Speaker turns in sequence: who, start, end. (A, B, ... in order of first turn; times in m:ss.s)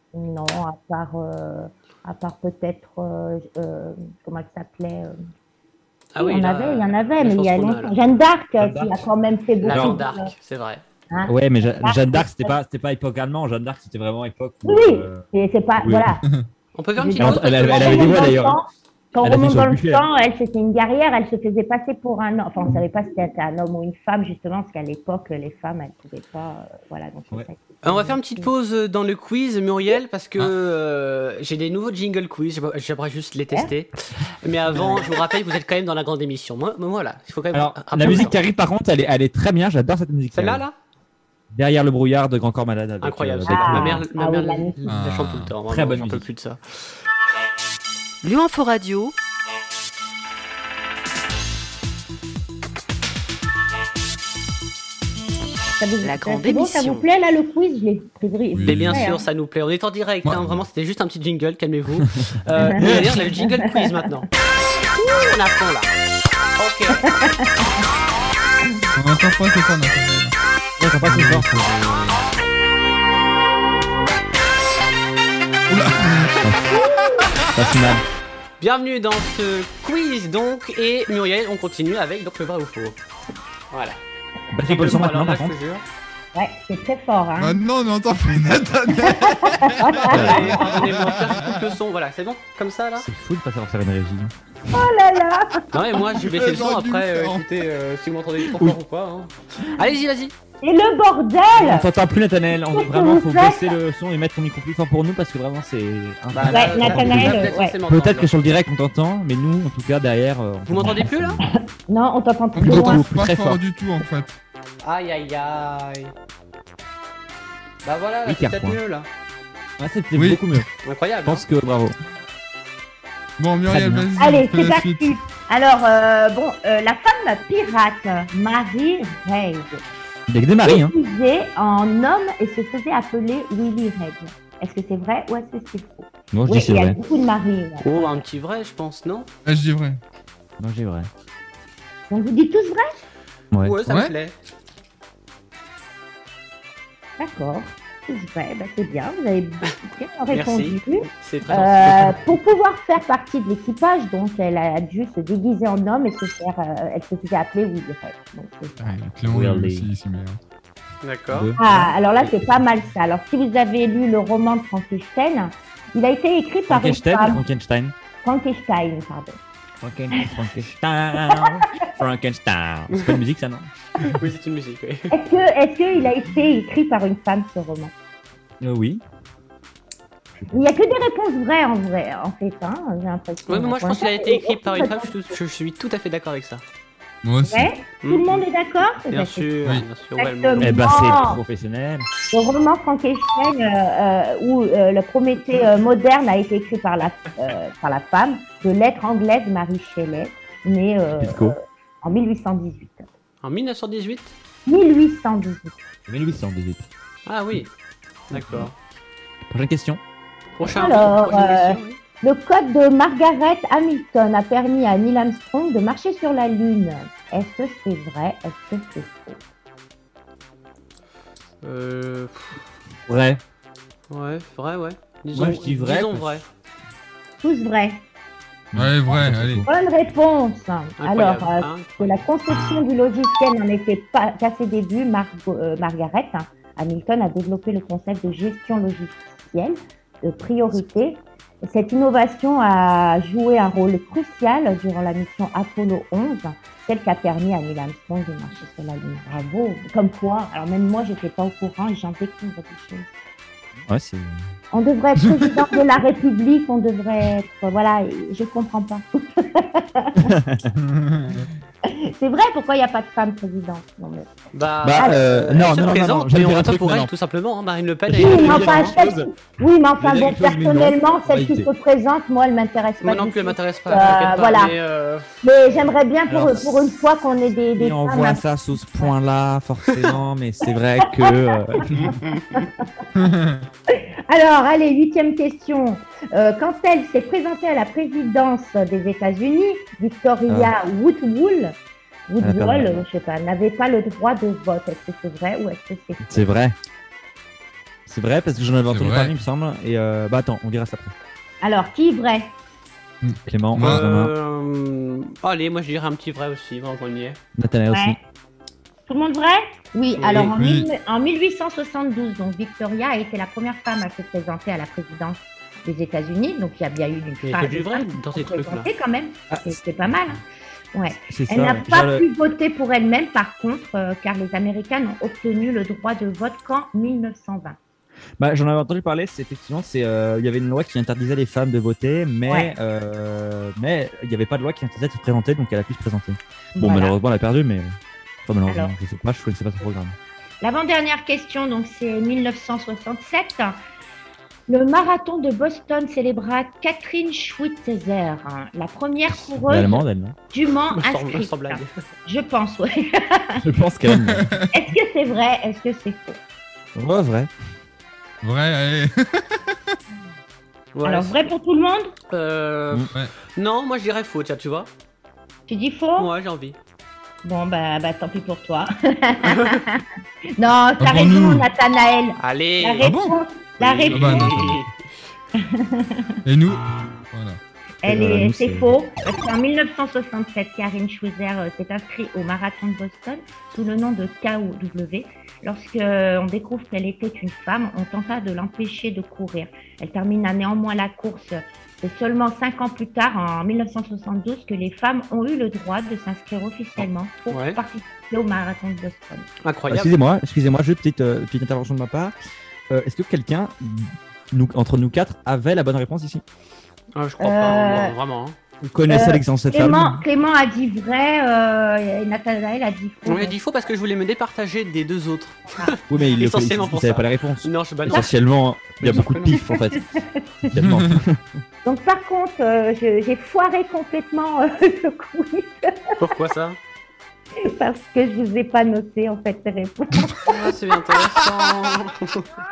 0:00.1-0:05.2 A
0:06.1-0:08.0 B
0:06.2-0:10.3 A
0:08.6-0:09.0 C
0:09.6-0:10.8 B
0:09.7-0:10.0 C
0:11.1-0:12.5 A
0:11.2-0:15.2 C
0:14.6-0:16.2 A
0:15.8-0:16.2 C
0:16.7-0:18.5 B
0:17.0-0:28.5 A
0:17.2-0:18.6 C
0:19.2-0:20.0 C
0:27.8-0:38.4 B
0:34.7-0:35.0 C
0:37.5-0:40.6 C
0:40.3-0:40.7 B
0:41.5-0:44.0 C
0:43.0-0:46.9 B
0:43.5-0:44.8 A
0:44.9-0:45.5 D
0:45.6-0:46.2 C
0:48.2-0:49.1 E
0:55.8-0:59.2 A
0:56.0-0:57.1 E
0:58.5-0:59.2 D
0:58.6-1:04.3 B
1:00.2-1:00.6 D
1:02.6-1:03.7 A
1:02.7-1:03.3 C
1:05.0-1:05.9 B
1:06.6-1:07.1 B
1:07.0-1:07.7 A
1:09.0-1:10.3 D
1:10.8-1:12.2 C
1:11.0-1:11.7 D
1:15.7-1:16.4 D
1:16.4-1:16.8 C
1:16.8-1:17.2 A
1:17.5-1:18.0 C
1:18.6-1:23.0 B
1:23.7-1:24.0 B
1:24.5-1:25.6 C
1:24.6-1:25.8 B
1:26.3-1:27.6 A
1:27.4-1:31.6 D
1:29.1-1:30.5 A
1:30.1-1:33.0 B
1:30.1-1:30.6 C
1:33.0-1:34.3 C
1:34.7-1:35.6 A
1:35.7-1:40.3 B
1:36.3-1:37.4 D
1:40.6-1:41.8 A
1:41.5-1:51.4 C
1:42.7-1:43.8 A
1:46.3-1:48.3 B
1:46.5-1:47.7 A
1:50.7-1:51.4 B
1:51.9-1:53.0 A
1:52.5-1:54.4 D
1:52.6-1:53.6 C
1:54.8-1:56.1 B
1:57.8-1:59.1 B
1:58.2-1:58.8 C
1:59.8-2:00.7 C
2:00.1-2:00.6 D
2:00.8-2:01.4 B
2:01.2-2:02.0 C
2:03.4-2:05.2 D
2:03.7-2:04.1 C
2:04.2-2:09.8 A
2:10.3-2:10.9 C
2:10.6-2:18.2 A
2:16.3-2:17.0 C
2:17.8-2:19.3 B
2:19.4-2:20.0 D
2:20.6-2:21.1 C
2:22.1-2:23.0 A
2:23.5-2:23.8 C
2:23.6-2:24.3 B
2:23.8-2:24.1 D
2:27.2-2:38.9 A
2:30.3-2:32.2 B
2:38.8-2:40.4 D
2:39.2-2:39.9 C
2:41.0-2:41.5 B
2:41.3-2:42.7 C
2:41.6-2:47.4 A
2:46.7-2:47.9 C
2:48.2-2:49.4 A
2:49.8-2:53.7 C
2:54.2-2:55.1 B
2:55.1-2:57.9 A
2:58.6-2:59.0 C
3:00.5-3:05.4 A
3:03.5-3:06.6 B
3:07.2-3:07.7 D
3:07.4-3:09.6 A
3:08.0-3:08.4 B
3:09.1-3:10.8 B
3:10.2-3:11.4 A
3:10.6-3:12.1 C
3:12.3-3:23.1 A
3:21.2-3:21.6 C
3:23.4-3:24.3 B
3:24.7-3:25.8 A
3:26.1-3:26.9 C
3:27.2-3:27.7 B
3:28.3-3:28.7 B
3:28.3-3:28.7 C
3:29.5-3:30.0 C
3:30.6-3:32.0 B
3:30.6-3:39.4 A
3:41.6-3:42.6 B
3:43.1-3:43.4 C
3:44.1-3:46.4 B
3:45.3-3:46.4 C
3:47.4-3:48.0 A
3:48.7-3:49.7 C
3:48.7-3:49.6 D
3:49.6-4:13.1 A
3:51.0-3:52.2 B
4:13.9-4:14.4 C
4:14.7-4:20.3 A
4:20.2-4:20.7 C
4:20.8-4:21.5 D
4:21.9-4:24.3 A
4:24.5-4:29.0 B
4:24.8-4:27.1 C
4:28.1-4:29.3 C
4:28.1-4:34.7 A
4:30.0-4:31.7 C
4:33.0-4:35.4 B
4:35.4-4:38.4 A
4:36.3-4:37.0 C
4:37.8-4:42.2 C
4:42.5-4:42.9 A
4:43.2-4:43.6 D
4:43.9-4:51.7 A
4:50.5-4:50.7 C
4:52.3-4:56.4 A
4:52.4-4:53.0 C
4:56.2-4:56.8 C
4:58.1-5:01.1 C
4:58.9-4:59.3 D
5:01.6-5:02.5 A
5:03.2-5:04.0 D
5:03.5-5:04.3 C
5:03.8-5:07.4 B
5:07.6-5:08.2 C
5:07.9-5:08.2 A
5:09.1-5:27.8 A
5:10.2-5:10.5 B
5:10.5-5:10.9 D
5:17.4-5:18.9 B
5:19.5-5:20.4 C
5:21.3-5:22.2 C
5:28.4-5:37.9 C
5:32.4-5:32.7 A
5:36.8-5:37.1 A
5:38.4-5:40.2 C
5:38.7-5:38.9 A
5:40.6-5:43.8 A
5:44.7-5:53.6 A
5:49.3-5:50.4 C
5:50.9-5:51.9 B
5:53.6-5:54.5 C
5:54.1-5:54.7 D
5:54.7-5:56.4 A
5:56.9-5:57.5 C
5:58.4-5:59.9 D
6:00.9-6:01.5 B
6:01.0-6:02.1 A
6:02.3-6:04.9 B
6:05.7-6:06.3 A
6:06.2-6:06.8 B
6:07.4-6:10.0 A
6:09.5-6:09.8 B
6:10.6-6:14.6 A
6:11.0-6:11.7 D
6:12.4-6:13.0 B
6:13.0-6:13.4 D
6:13.8-6:15.0 B
6:14.1-6:14.6 D
6:15.6-6:16.3 A
6:16.4-6:17.6 D
6:18.0-6:39.4 A
6:18.0-6:18.9 C
6:37.5-6:37.8 B
6:39.6-6:40.1 B
6:39.9-6:42.3 C
6:42.9-6:46.4 C
6:47.1-6:48.6 B
6:47.4-6:48.1 A
6:48.8-6:50.2 C
6:49.1-6:53.6 A
6:53.2-6:58.3 B
6:56.1-7:00.1 C
6:59.0-6:59.6 B
6:59.5-7:00.4 A
7:00.6-7:01.4 C
7:00.8-7:01.2 D
7:01.8-7:06.1 A
7:06.2-7:06.8 B
7:07.6-7:10.5 A
7:10.5-7:12.5 B